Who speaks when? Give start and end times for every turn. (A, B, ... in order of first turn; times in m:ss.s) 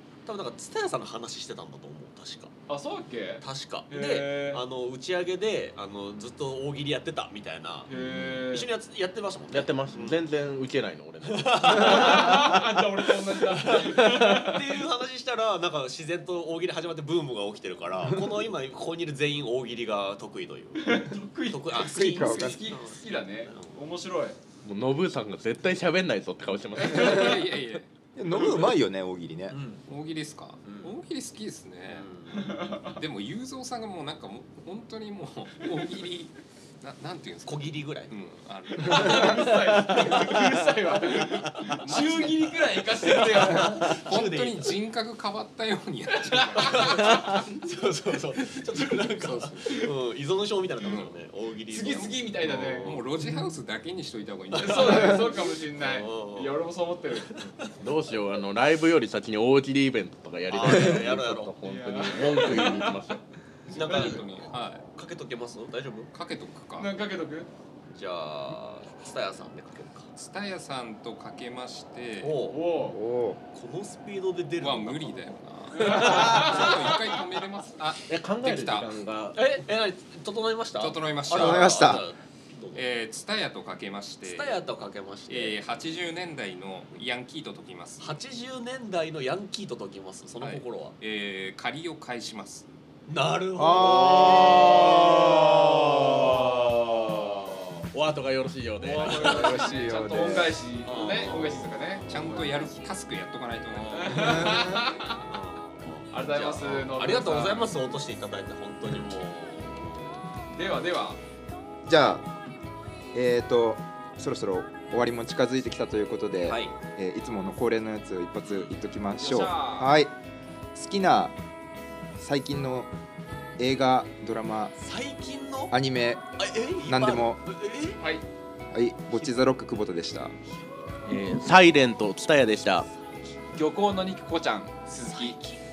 0:00.3-0:02.6 A
0:02.7-0:04.6 B
0:03.4-0:10.2 A
0:07.9-0:08.7 B
0:09.5-0:12.6 C
0:11.3-0:12.6 A
0:11.6-0:14.8 B
0:13.6-0:23.8 A
0:20.8-0:24.4 B
0:21.8-0:22.7 D
0:24.6-0:27.6 C
0:26.8-0:27.9 E
0:28.2-0:29.6 D
0:28.4-0:28.6 A
0:29.5-0:29.8 A
0:29.9-0:32.1 E
0:30.6-0:31.0 A
0:31.9-0:32.8 A
0:32.3-0:33.0 B
0:33.0-0:40.3 E
0:37.5-0:38.1 A
0:38.8-0:44.0 B
0:41.1-0:42.3 A
0:41.2-0:42.6 E
0:43.0-0:44.8 A
0:43.1-0:47.4 E
0:46.3-0:47.5 B
0:46.6-0:53.0 A
0:49.2-0:49.6 E
0:49.6-0:49.9 B
0:50.8-0:51.2 E
0:51.7-0:53.0 B
0:51.9-0:55.3 E
0:54.5-0:56.6 A
0:54.6-0:57.3 B
0:57.1-0:57.7 A
0:57.8-1:03.2 C
1:00.5-1:01.6 A
1:01.6-1:03.1 B
1:03.7-1:04.9 E
1:03.7-1:06.1 A
1:06.1-1:06.9 E
1:06.8-1:07.5 B
1:07.9-1:10.1 A
1:10.2-1:12.4 E
1:12.2-1:12.6 A
1:12.5-1:13.0 B
1:12.9-1:13.4 D
1:13.5-1:17.3 A
1:14.6-1:18.9 E
1:15.7-1:16.9 B
1:18.1-1:19.4 C
1:19.4-1:22.8 A
1:20.8-1:22.0 E
1:21.3-1:22.0 D
1:22.7-1:24.6 E
1:24.2-1:25.6 A
1:25.3-1:28.1 E
1:28.0-1:31.0 A
1:30.4-1:32.7 E
1:33.1-1:36.3 A
1:33.6-1:35.4 D
1:34.0-1:37.4 C
1:35.8-1:37.8 B
1:37.9-1:39.4 C
1:38.8-1:42.1 B
1:39.1-1:39.6 A
1:39.2-1:40.6 D
1:40.8-1:41.8 A
1:42.1-1:44.6 E
1:42.1-1:42.8 D
1:43.7-1:44.6 A
1:43.9-1:45.2 B
1:44.2-1:44.8 D
1:45.1-1:50.2 A
1:46.1-1:47.7 B
1:50.5-1:51.2 B
1:51.9-1:52.3 D
1:53.1-2:00.2 D
1:56.4-1:56.8 A
1:59.2-2:00.0 B
2:00.7-2:01.4 D
2:02.2-2:02.9 D
2:03.6-2:04.8 D
2:04.8-2:05.8 A
2:05.7-2:07.4 D
2:06.4-2:08.0 A
2:08.7-2:10.4 D
2:10.6-2:11.0 A
2:11.0-2:12.9 C
2:13.5-2:15.4 B
2:15.1-2:15.6 A